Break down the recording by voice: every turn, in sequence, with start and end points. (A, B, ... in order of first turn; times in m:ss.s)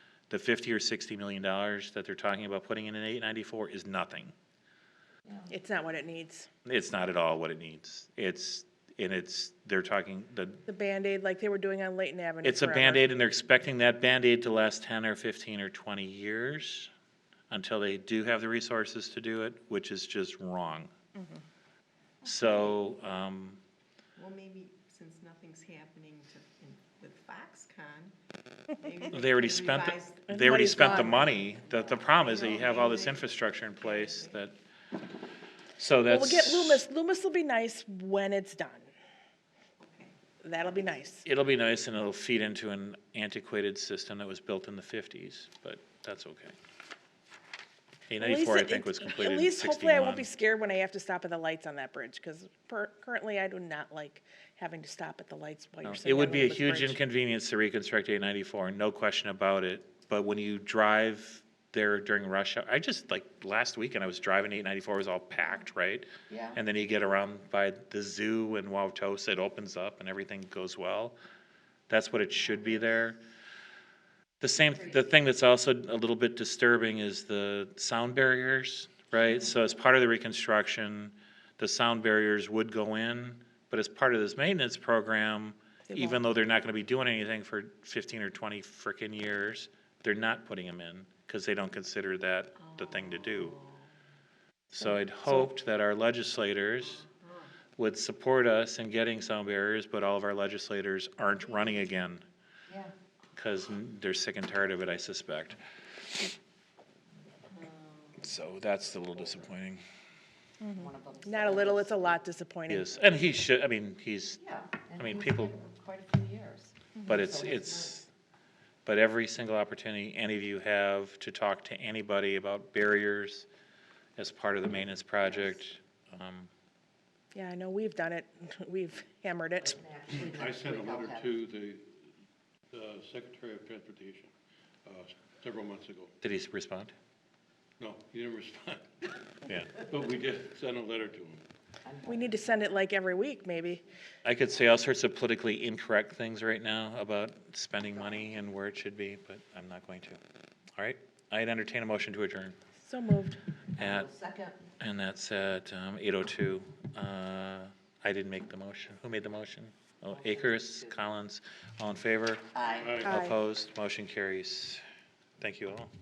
0:00.3-0:04.3 A
0:05.5-0:06.5 B
0:06.6-0:10.6 A
0:10.7-0:13.1 B
0:12.4-0:16.9 A
0:17.5-0:20.9 A
0:22.2-0:23.6 A
0:24.1-0:28.2 C
0:28.7-0:34.4 C
0:29.1-0:34.5 A
0:30.3-0:31.3 B
0:35.8-0:36.8 A
0:36.0-0:38.9 B
0:39.8-0:40.1 C
0:40.4-0:41.2 B
0:41.2-0:46.5 A
0:48.1-0:50.3 A
0:48.2-0:57.0 B
0:55.8-1:11.2 A
1:06.3-1:06.6 D
1:11.9-1:13.2 A
1:14.4-1:33.6 A
1:25.9-1:26.2 B
1:32.6-1:33.8 C
1:34.7-1:37.0 A
1:37.0-1:37.5 C
1:37.8-1:42.2 A
1:42.7-1:42.9 D
1:43.4-1:45.6 A
1:48.2-1:49.8 A
1:50.6-1:52.9 B
1:50.7-1:52.2 D
1:52.7-1:54.4 A
1:54.4-1:58.0 D
1:55.0-1:55.5 A
1:57.0-1:58.1 A
1:58.8-2:03.5 A
2:04.2-2:06.5 A
2:07.3-2:09.8 B
2:09.6-2:11.3 D
2:10.1-2:12.0 E
2:12.7-2:14.3 E
2:14.8-2:16.1 E
2:16.2-2:16.9 A
2:17.8-2:19.2 E
2:19.4-2:19.7 A
2:19.7-2:21.4 E
2:21.8-2:22.5 D
2:22.0-2:23.8 B
2:24.2-2:30.2 A
2:30.8-2:32.5 A
2:32.8-2:33.4 B
2:33.8-2:34.1 A
2:33.8-2:34.6 D
2:34.8-2:42.5 A
2:40.1-2:41.0 D
2:42.5-2:43.0 D
2:42.7-2:43.1 E
2:43.0-2:44.8 A
2:43.0-2:43.3 B
2:45.4-2:45.9 A